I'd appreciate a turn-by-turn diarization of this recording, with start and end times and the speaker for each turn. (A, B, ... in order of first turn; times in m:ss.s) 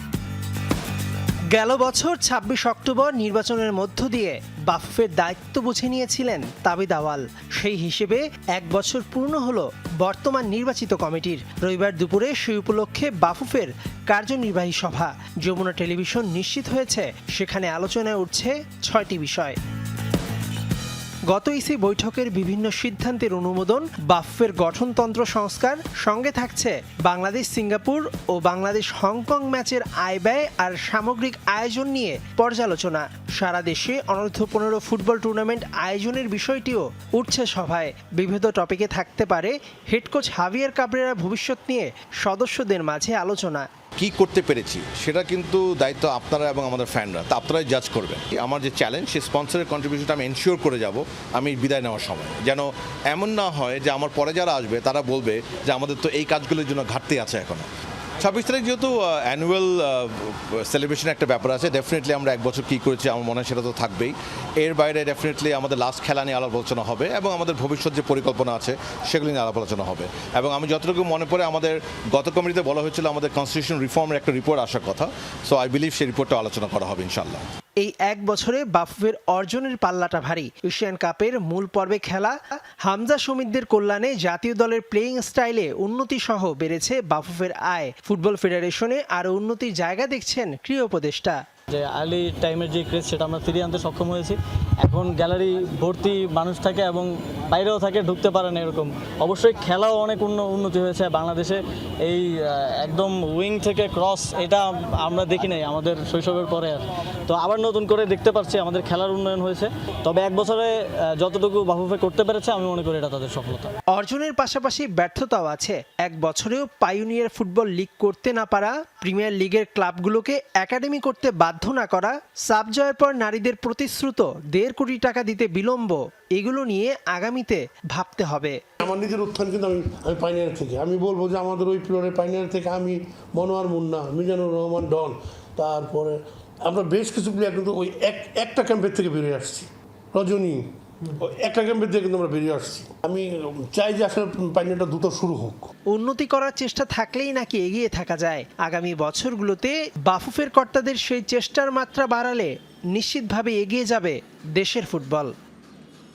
0:01.5-0:19.6 A
0:21.3-0:43.7 A
0:44.0-0:57.7 B
0:58.2-1:17.4 B
1:17.8-1:31.4 A
1:31.7-1:53.7 C
1:53.9-2:08.6 A
2:08.8-2:25.7 D
2:25.9-2:35.3 A